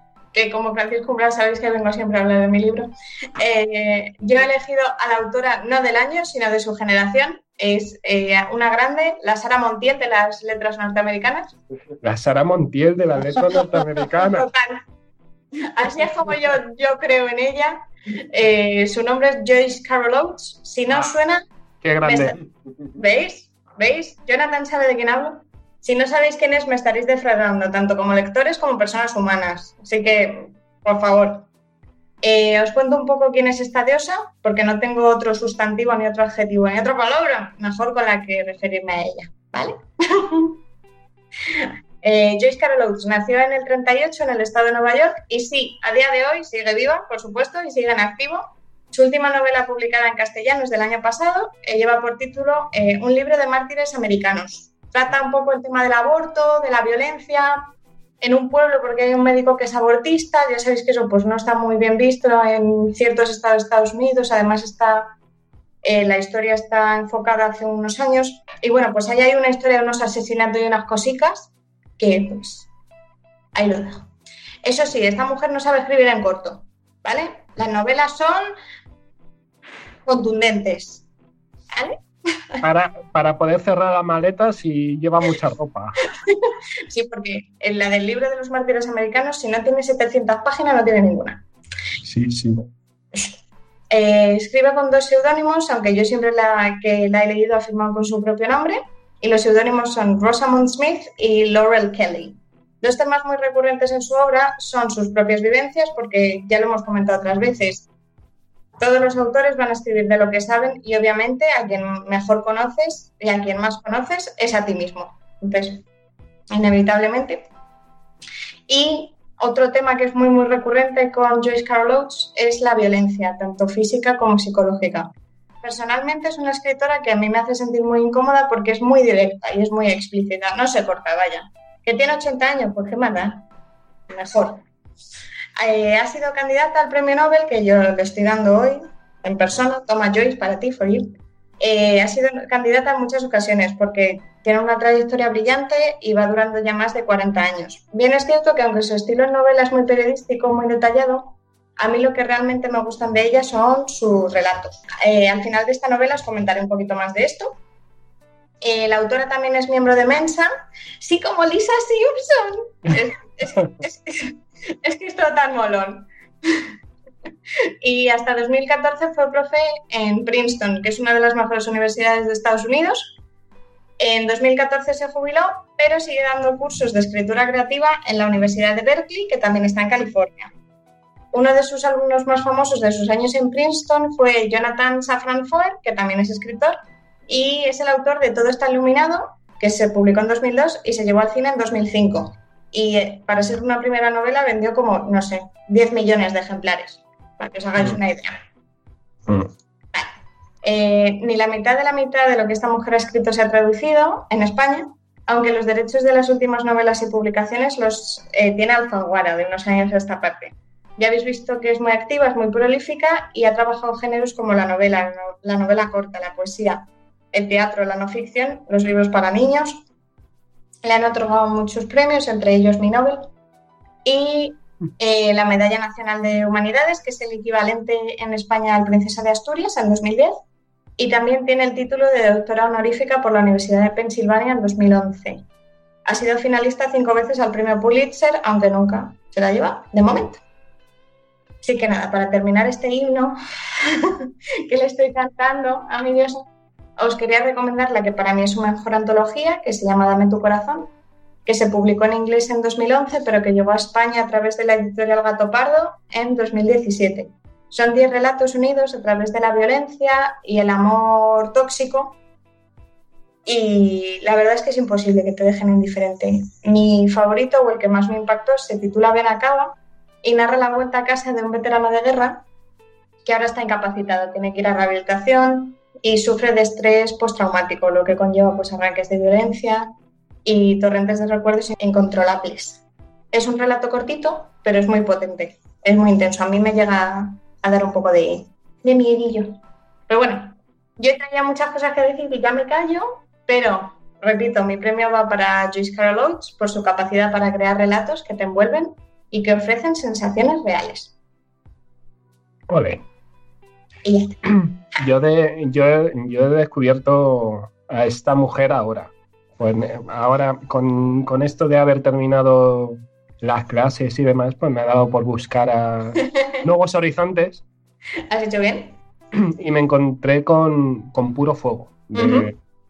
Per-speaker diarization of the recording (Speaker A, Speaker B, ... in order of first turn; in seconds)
Speaker A: 0.3-11.5, 14.2-14.8, 15.6-21.4, 22.0-22.4, 22.9-31.5, 32.2-40.6, 41.5-57.6, 58.2-65.1, 65.8-72.7, 73.5-74.1, 74.6-78.5, 80.0-81.0, 86.2-91.4, 93.9-107.9, 108.8-115.8, 116.5-117.4, 118.7-133.4, 134.1-134.6, 135.6-157.6, 158.6-160.5, 161.0-166.7, 167.8-173.2, 174.0-180.5, 181.3-198.4, 200.6-219.8, 220.8-223.3, 224.0-230.3, 231.0-235.4, 236.1-240.4, 241.6-246.5, 247.0-250.9, 251.4-262.2, 263.4-272.4, 273.2-279.9, 280.4-301.1, 304.0-304.4, 318.3-319.0, 322.1-322.5
Speaker B: 12.0-14.5, 21.8-22.4, 82.6-86.0, 92.0-92.7, 302.7-303.0, 304.5-317.6, 319.4-322.6